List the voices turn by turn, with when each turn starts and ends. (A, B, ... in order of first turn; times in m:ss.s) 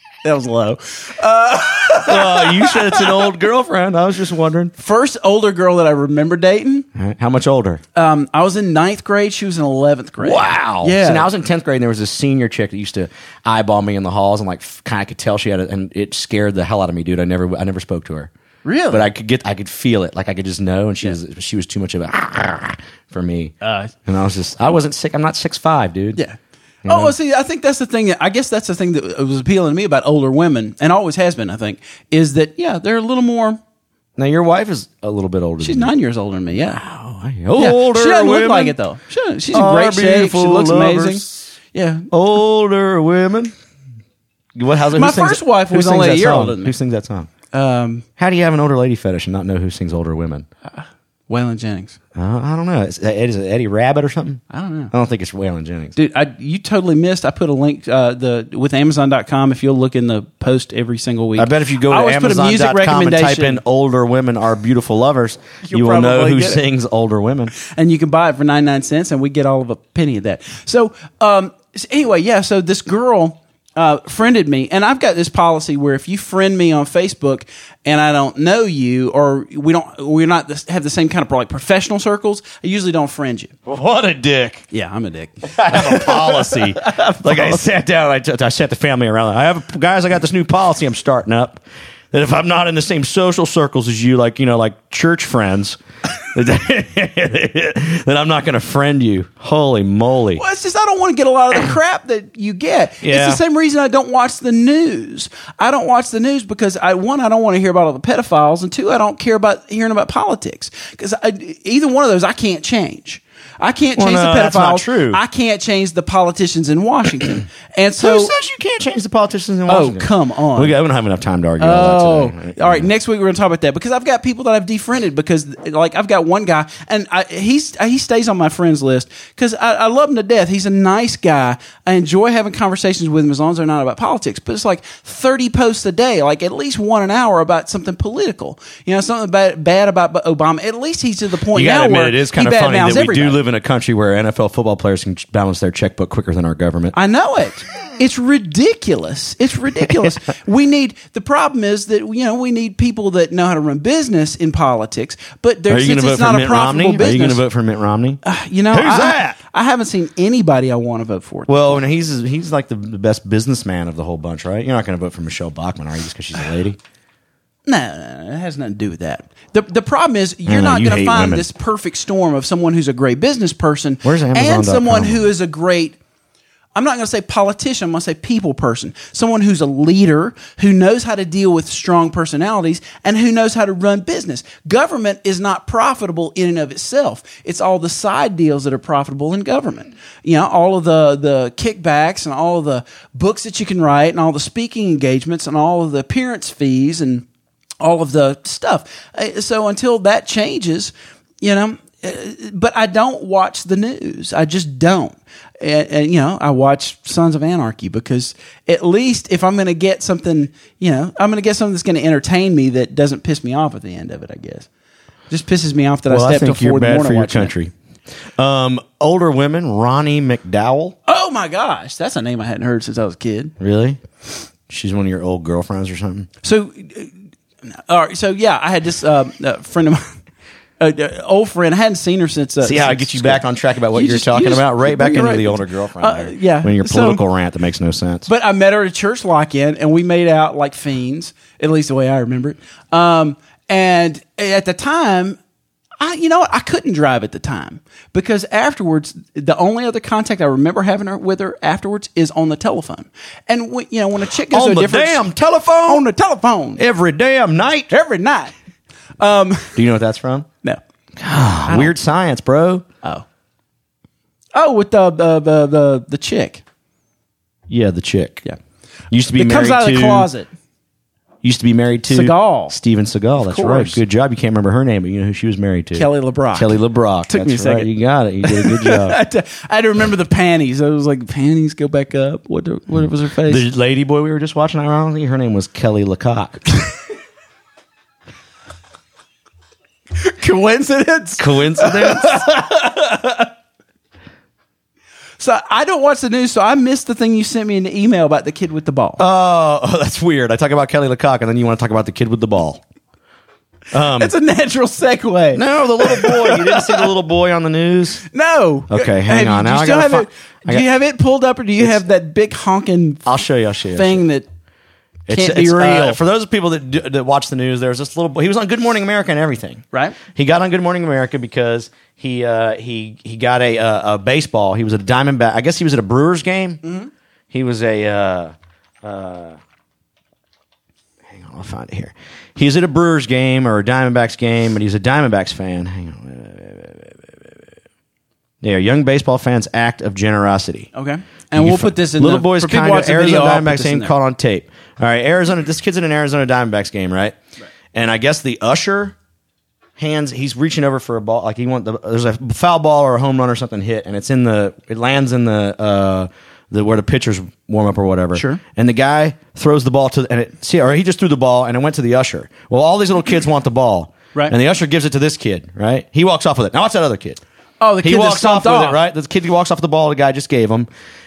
0:00.2-0:03.3 A
0:02.0-0:04.7 B
0:04.8-0:06.9 A
0:06.9-0:07.8 B
0:07.9-0:11.3 A
0:10.2-0:18.3 B
0:18.6-0:19.1 A
0:18.9-0:26.2 B
0:23.6-0:23.9 A
0:26.2-0:33.6 A
0:26.8-0:27.1 B
0:34.2-0:35.9 B
0:35.6-0:36.8 A
0:36.7-0:38.8 B
0:37.6-0:42.1 A
0:39.5-0:41.5 B
0:42.1-0:43.5 B
0:44.6-0:47.3 B
0:44.9-0:46.7 A
0:47.5-0:48.0 A
0:48.2-0:50.5 B
0:50.7-0:52.0 A
0:52.1-0:55.9 B
0:54.5-0:54.9 A
0:56.0-1:03.6 A
1:01.4-1:07.5 B
1:05.6-1:06.6 A
1:07.5-1:23.5 A
1:23.6-1:24.6 B
1:24.7-1:27.6 A
1:25.4-1:40.4 B
1:40.4-1:58.3 A
1:43.0-1:43.4 B
1:54.0-1:55.2 B
1:58.0-2:02.9 B
1:59.7-2:00.8 A
2:01.6-2:23.4 A
2:21.5-2:26.9 B
2:26.9-2:37.4 A
2:35.7-2:39.4 B
2:38.2-2:41.8 A
2:41.5-2:46.8 B
2:47.6-2:56.0 A
2:50.4-2:51.4 B
2:54.0-2:55.3 B
2:56.7-3:17.2 A
3:17.8-3:34.7 A
3:35.3-3:37.5 A
3:36.1-3:37.7 B
3:38.4-3:41.0 B
3:41.0-3:43.5 A
3:43.6-3:44.0 B
3:44.7-3:46.3 B
3:46.4-3:50.2 A
3:50.8-3:57.2 A
3:52.6-3:58.3 B
3:58.3-4:05.4 A
4:06.0-4:15.2 A
4:14.5-4:16.0 B
4:15.8-4:16.8 A
4:16.8-4:17.9 B
4:17.9-4:18.5 A
4:19.2-4:19.8 A
4:19.7-4:20.5 B
4:21.2-4:22.8 B
4:21.7-4:21.9 A
4:24.5-4:26.6 A
4:27.7-4:28.4 B
4:29.1-4:30.3 B
4:29.3-4:30.5 A
4:31.4-4:39.2 B
4:32.1-4:32.8 A
4:33.4-4:34.0 A
4:35.9-4:37.9 A
4:38.4-4:43.6 A
4:43.5-4:46.6 B
4:50.1-4:53.5 A
4:51.4-4:52.4 B
4:55.4-4:59.2 A
4:59.2-5:02.8 B
5:03.9-5:04.3 B
5:04.1-5:07.1 A
5:05.5-5:08.2 B
5:08.2-5:13.2 A
5:08.9-5:10.8 B
5:13.2-5:14.2 B
5:13.9-5:14.4 A
5:15.3-5:26.8 B
5:15.3-5:16.2 A
5:19.9-5:20.2 A
5:26.8-5:27.1 A
5:27.5-5:29.6 B
5:31.3-5:37.5 B
5:38.6-5:40.9 B
5:40.9-5:44.1 A
5:41.5-5:47.4 B
5:47.9-5:49.2 B
5:50.0-6:07.4 B
5:58.3-5:58.6 A
6:07.8-6:09.0 A
6:08.0-6:10.9 B